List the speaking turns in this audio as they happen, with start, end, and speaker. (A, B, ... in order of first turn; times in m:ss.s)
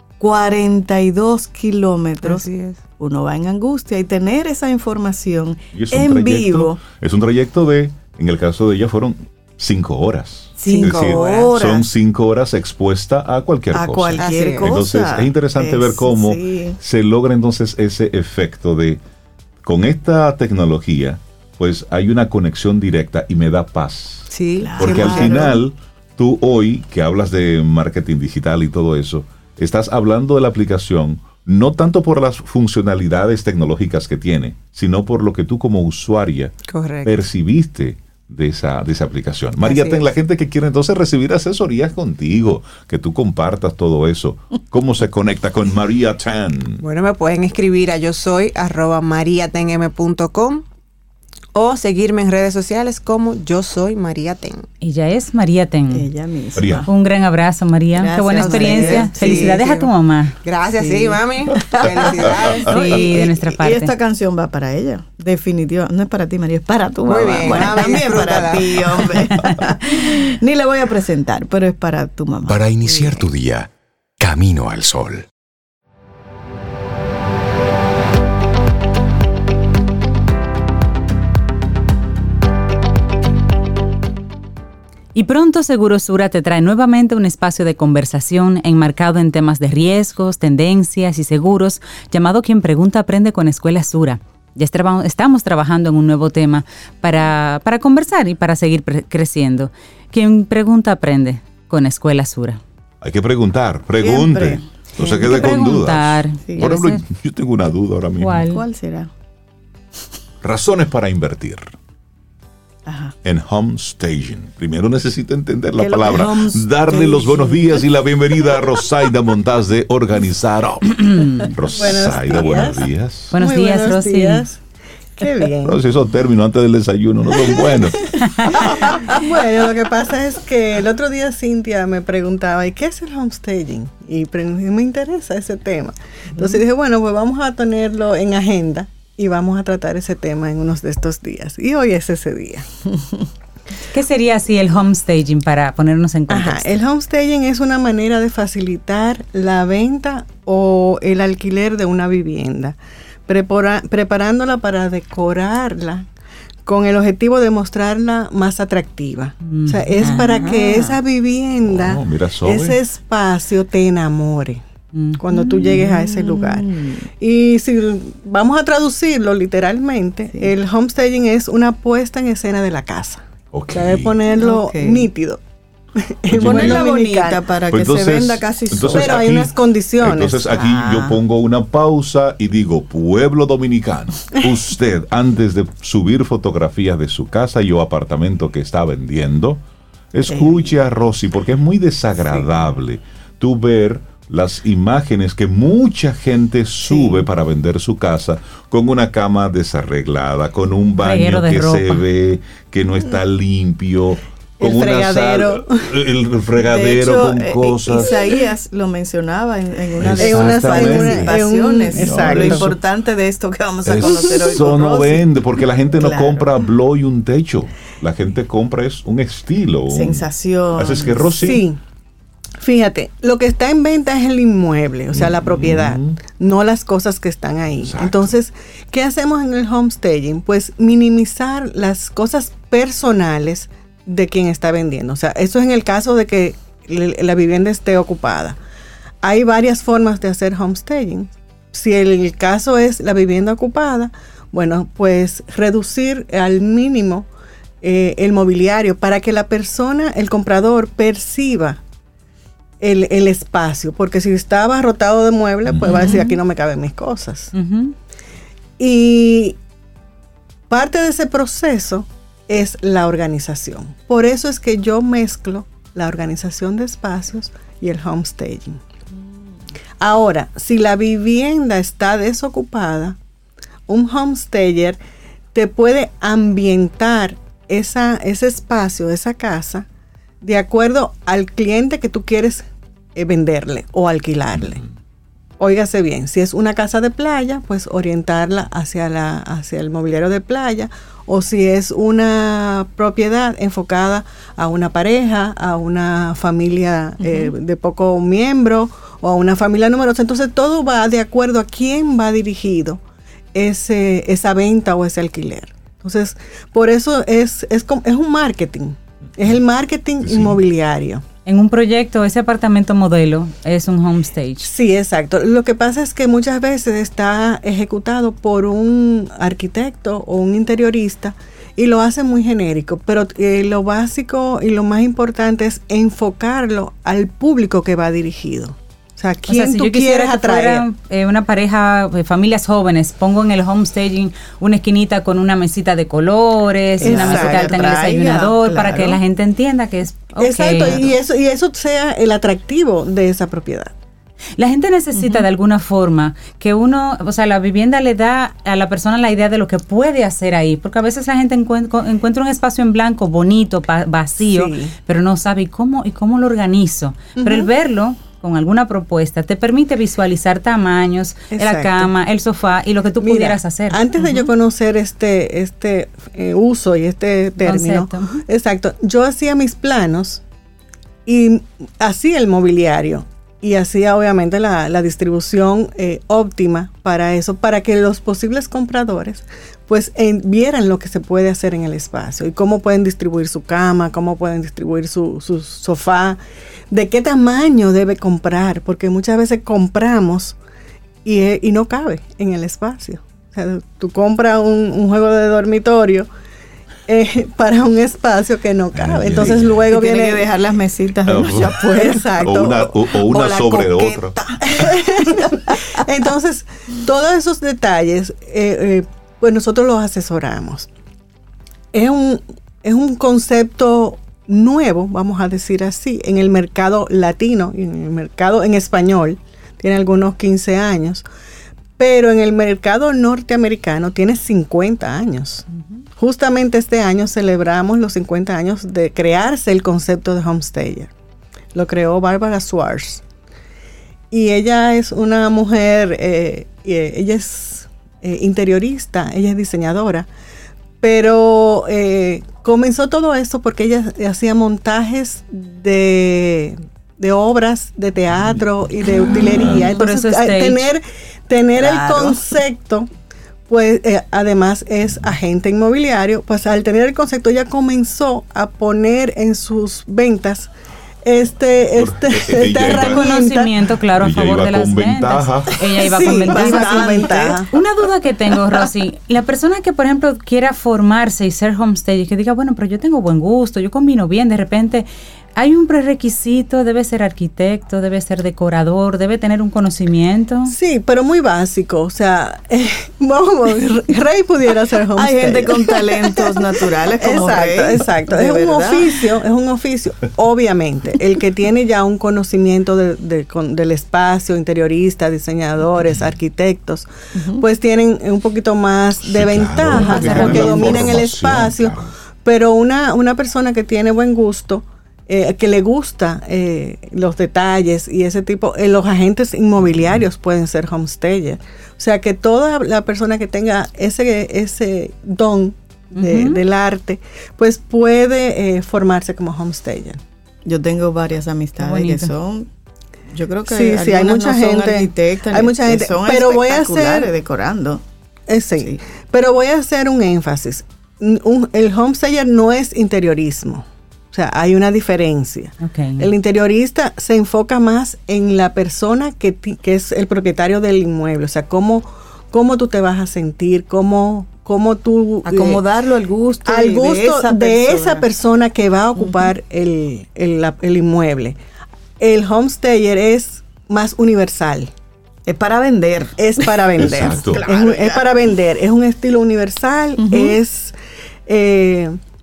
0:00.2-0:02.5 A
0:02.2-0:02.8 B
0:03.0-0:06.8 A
0:05.7-0:19.0 C
0:10.6-0:11.9 A
0:10.6-0:11.6 B
0:13.7-0:16.8 A
0:14.2-0:14.8 B
0:19.6-0:46.8 C
0:24.3-0:25.6 B
0:24.6-0:25.6 A
0:36.7-0:37.2 B
0:39.6-0:40.0 B
0:46.8-0:50.6 B
0:51.6-0:54.6 B
0:54.8-0:56.1 D
0:55.9-0:56.9 A
0:56.6-0:56.9 C
0:56.9-1:00.4 D
0:57.9-0:59.6 A
0:58.4-0:59.9 B
1:00.4-1:03.3 B
1:00.7-1:12.7 A
1:02.7-1:04.0 D
1:07.0-1:09.0 B
1:12.5-1:15.3 E
1:25.1-1:42.6 D
1:43.0-1:48.4 C
1:44.0-1:45.5 A
1:45.2-1:47.0 D
1:46.4-1:46.8 A
1:48.2-1:48.6 D
1:48.5-1:49.1 A
1:50.4-1:51.7 C
1:52.9-1:53.1 A
1:53.2-2:03.3 C
1:55.8-1:57.9 A
2:01.7-2:04.6 F
2:03.3-2:04.4 D
2:05.2-2:05.8 F
2:05.6-2:08.1 C
2:08.1-2:08.6 D
2:08.6-2:22.7 F
2:23.9-2:26.8 D
2:26.3-2:36.1 F
2:36.6-2:44.6 F
2:39.4-2:40.2 D
2:40.0-2:41.0 A
2:41.6-2:42.8 C
2:44.9-2:45.8 D
2:45.2-2:55.4 F
2:45.4-2:47.1 A
2:53.5-2:54.2 C
2:54.3-2:55.1 A
2:56.0-2:57.4 F
2:56.3-2:56.9 C
2:56.4-2:59.3 A
2:57.7-3:28.2 C
2:58.9-3:00.4 F
3:00.4-3:01.2 A
3:10.2-3:10.7 A
3:16.9-3:17.3 A
3:21.0-3:22.0 D
3:24.6-3:25.9 F
3:26.6-3:35.4 A
3:30.0-3:31.4 C
3:30.2-3:32.7 F
3:31.9-3:32.8 C
3:33.8-3:41.6 C
3:35.9-3:36.5 A
3:39.9-3:41.6 A
3:41.4-3:41.8 F
3:42.6-3:58.6 F
3:45.1-3:46.2 C
3:47.8-3:48.3 C
3:59.2-4:07.3 F
4:07.8-4:11.8 F
4:12.8-4:17.5 F
4:15.7-4:16.2 C
4:15.9-4:16.4 D
4:17.5-4:17.9 D
4:18.8-4:19.6 F
4:20.7-4:28.8 F
4:30.0-4:33.2 F
4:33.9-4:35.0 F
4:35.5-4:39.9 F
4:40.4-4:44.8 F
4:45.6-5:03.0 F
4:57.2-4:57.6 A
5:03.5-5:11.2 F
5:10.2-5:10.6 C
5:11.4-5:14.7 D
5:14.6-5:30.8 F
5:29.5-5:41.1 D
5:37.0-5:38.0 F
5:37.0-5:39.2 A
5:40.4-5:43.9 F
5:44.6-6:04.5 D
5:45.1-5:45.5 A
5:54.4-5:54.9 F
5:57.4-5:57.7 F
6:01.5-6:02.1 F
6:03.2-6:10.4 F
6:07.6-6:08.4 D
6:11.3-6:26.4 F
6:26.9-6:30.6 F
6:31.2-6:36.3 F
6:37.1-6:40.5 F
6:39.0-6:39.8 C
6:39.9-6:42.6 A
6:41.3-6:41.8 C
6:41.8-6:42.9 F
6:42.4-6:44.4 C
6:43.1-6:45.9 A
6:44.6-6:50.9 F
6:51.9-7:01.3 F
7:02.0-7:05.6 F
7:06.2-7:11.1 F
7:11.7-7:13.2 F
7:14.3-7:20.3 F
7:21.0-7:33.1 F
7:29.3-7:29.9 A
7:29.8-7:30.9 D
7:31.8-7:32.4 A
7:33.7-7:40.7 F
7:41.2-7:43.7 F
7:42.0-7:43.4 C
7:42.9-8:00.7 D
7:44.1-7:45.8 C
7:46.0-7:47.6 A
7:46.0-7:47.7 F
8:00.7-8:40.2 F
8:05.2-8:09.2 A
8:17.3-8:17.6 A
8:19.2-8:22.1 C
8:19.9-8:21.2 A
8:29.9-8:30.2 C
8:36.1-8:36.6 D
8:40.6-8:42.7 A
8:41.8-8:42.3 D
8:43.3-8:48.0 A
8:43.7-8:47.3 F
8:48.5-9:05.8 F
8:55.8-8:56.3 D
9:05.4-9:08.3 A
9:06.6-9:11.6 F
9:09.2-9:09.6 A
9:12.2-9:14.9 F
9:15.4-9:18.3 A
9:16.4-9:20.9 F
9:17.0-9:17.6 C
9:20.2-9:20.6 A
9:21.5-9:22.2 F